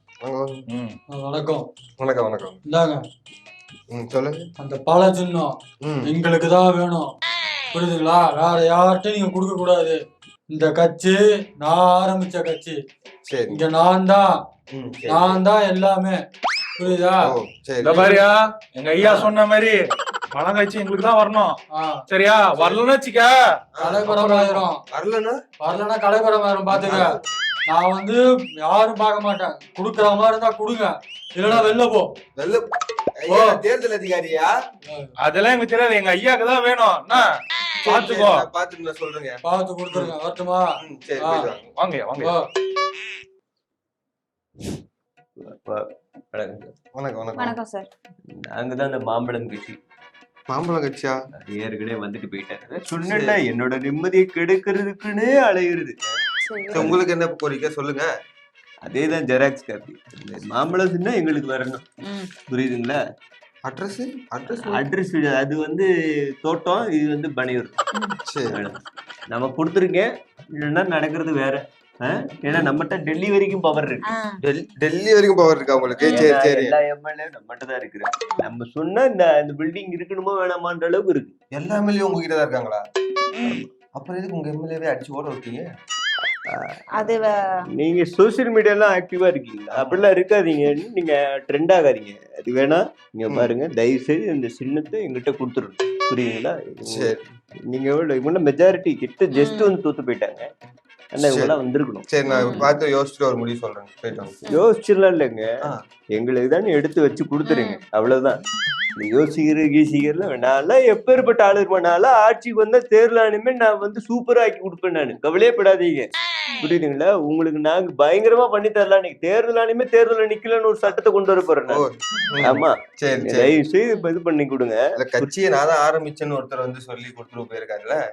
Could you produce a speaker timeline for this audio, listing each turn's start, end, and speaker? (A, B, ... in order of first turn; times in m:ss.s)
0:00.2-0:00.6 A
0:00.7-0:01.0 B
0:01.1-0:01.7 C
0:02.0-0:02.6 A
0:02.7-0:03.0 C
0:03.9-0:04.5 A
0:04.6-0:07.1 C
0:05.8-0:06.1 A
0:07.7-0:10.0 C
0:10.5-0:12.8 C
0:13.2-0:13.7 A
0:13.5-0:14.4 C
0:14.7-0:15.4 A
0:15.0-0:16.2 C
0:16.8-0:17.3 C
0:17.2-0:18.2 A
0:17.8-0:19.8 B
0:17.9-0:18.4 C
0:20.3-0:21.6 B
0:21.7-0:22.0 C
0:22.1-0:23.4 B
0:22.6-0:22.8 A
0:23.8-0:25.4 A
0:23.8-0:24.8 C
0:25.6-0:32.1 C
0:26.7-0:27.2 A
0:31.4-0:31.7 A
0:32.4-0:32.6 A
0:33.2-0:34.5 A
0:33.3-0:33.6 C
0:35.2-0:37.3 B
0:37.8-0:38.4 B
0:37.8-0:39.4 A
0:39.4-0:41.5 C
0:40.8-0:41.6 A
0:41.8-0:42.3 B
0:45.4-0:46.7 D
0:46.9-0:47.5 A
0:47.4-0:47.9 E
0:48.4-0:49.8 D
0:50.5-0:51.2 A
0:51.4-0:56.1 D
0:52.9-0:53.4 A
0:56.4-0:56.9 E
0:56.7-0:58.1 A
0:56.7-0:57.0 D
0:58.8-1:01.8 D
1:02.0-1:02.3 E
1:02.5-1:03.0 D
1:03.6-1:04.8 A
1:04.5-1:05.9 D
1:06.4-1:07.8 D
1:08.2-1:08.6 A
1:08.5-1:08.8 D
1:09.3-1:14.0 D
1:14.0-1:14.4 E
1:14.4-1:16.8 A
1:16.0-1:16.3 E
1:16.1-1:21.3 D
1:21.5-1:22.8 A
1:23.4-1:23.7 D
1:23.9-1:25.7 A
1:26.9-1:27.6 E
1:27.8-1:40.5 D
1:29.7-1:30.0 A
1:36.8-1:37.2 A
1:39.3-1:39.7 E
1:41.1-1:42.6 D
1:41.2-1:41.5 A
1:42.1-1:44.3 A
1:42.3-1:42.7 E
1:44.5-1:45.5 D
1:46.1-1:48.4 D
1:47.4-1:47.8 E
1:49.0-2:01.8 D
1:56.5-1:56.7 E
2:01.7-2:03.5 A
2:02.4-2:05.3 D
2:05.0-2:08.0 A